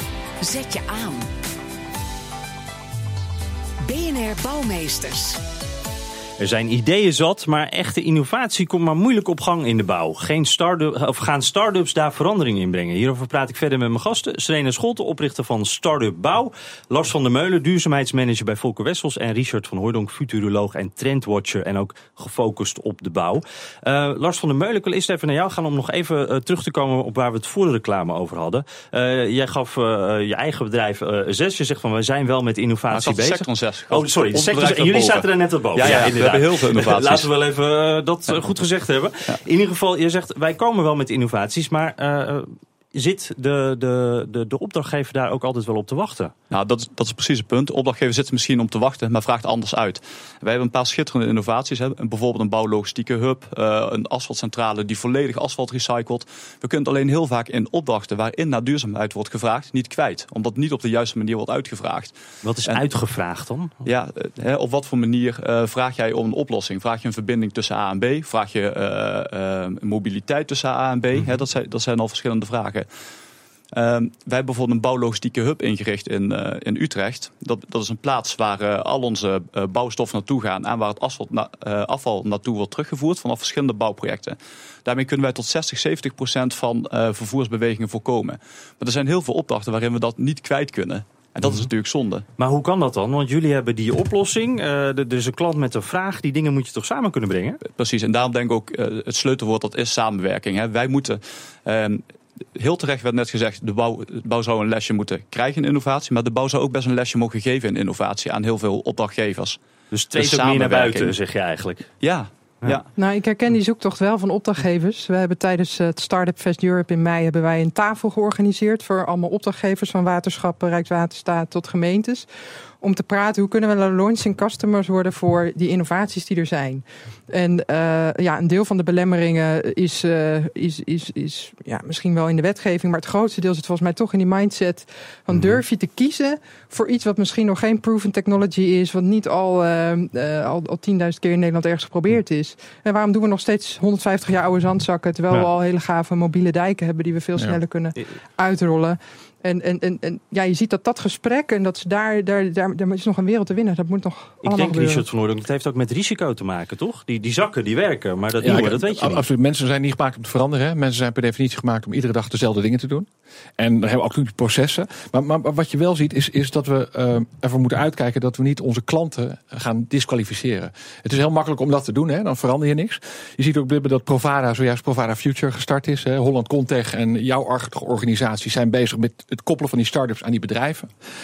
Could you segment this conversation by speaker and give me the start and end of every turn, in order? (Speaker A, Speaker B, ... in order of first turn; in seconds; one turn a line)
Speaker A: 0.4-1.3
Speaker A: 3.8-5.4
Speaker B: 6.4-46.3
Speaker C: 32.9-37.3
Speaker C: 46.5-62.8
Speaker B: 62.4-63.9
Speaker C: 63.9-72.9
Speaker B: 71.1-71.4
Speaker C: 73.7-92.2
Speaker B: 92.4-97.6
Speaker C: 97.6-102.0
Speaker C: 102.5-109.6
Speaker B: 109.9-111.9
Speaker C: 110.1-111.2
Speaker C: 112.0-112.8
Speaker D: 113.0-122.3
Speaker D: 122.8-155.1
Speaker B: 135.3-135.6
Speaker B: 154.4-159.2
Speaker E: 158.4-180.9